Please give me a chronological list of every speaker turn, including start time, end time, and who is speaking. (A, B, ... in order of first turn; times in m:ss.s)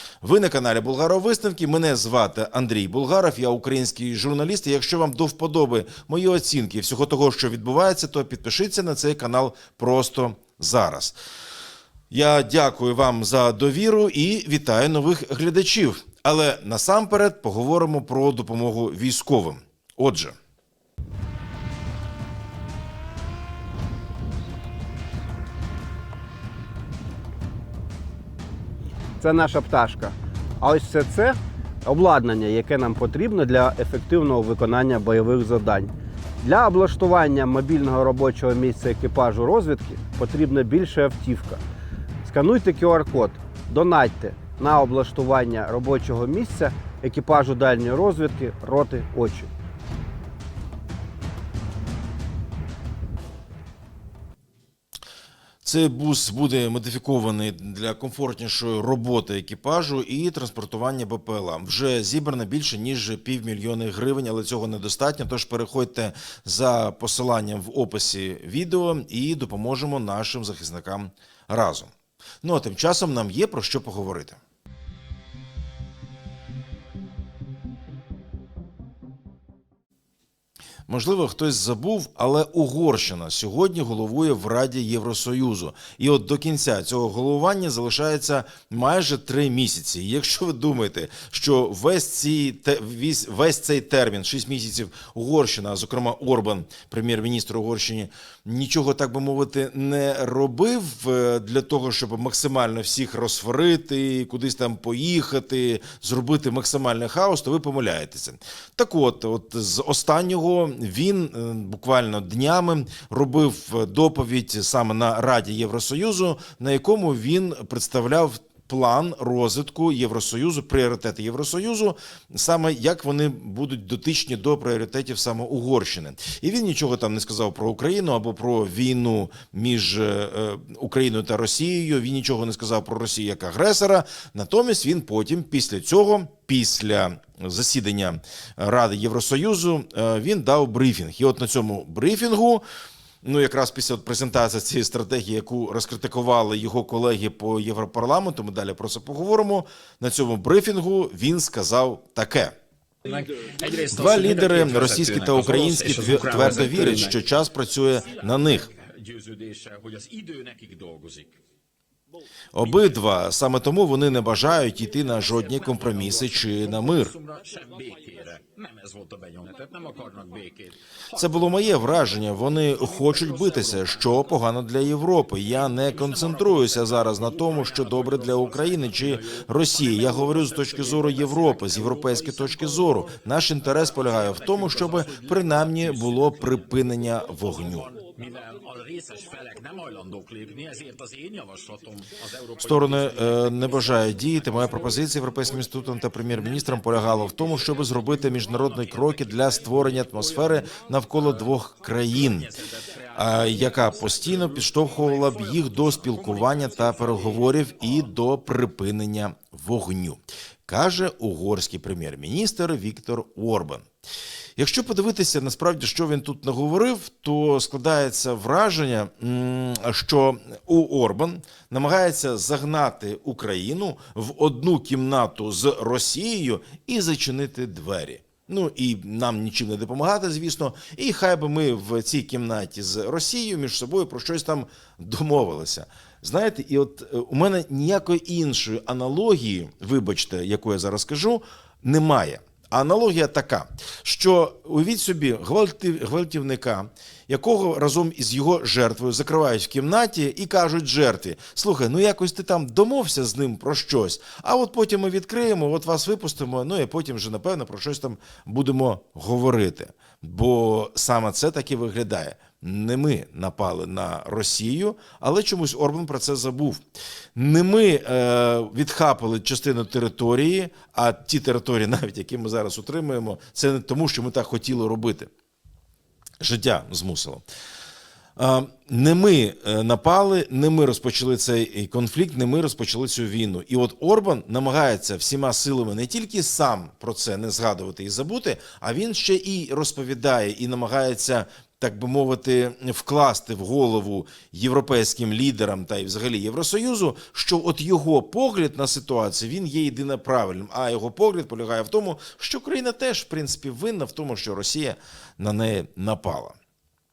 0:00.2-0:11.2 A
0:12.1-0:20.4 A
0:29.2-0:41.6 B
0:42.2-0:49.5 B
0:55.6-1:11.9 A
1:12.4-1:14.4 A
1:20.9-2:22.6 A
2:23.2-2:32.6 A
2:33.0-2:37.1 C
2:33.9-2:38.7 A
2:38.7-2:41.4 C
2:42.6-2:47.2 A
2:47.0-2:51.4 C
2:51.1-3:07.9 A
2:53.0-2:54.0 C
2:55.6-3:02.9 C
3:04.3-3:06.3 C
3:07.9-3:13.5 C
3:12.6-3:22.5 A
3:22.1-3:27.2 C
3:23.1-3:33.9 A
3:34.6-4:26.8 A
4:27.4-4:35.3 A
4:36.4-4:37.4 A
4:38.4-5:06.6 A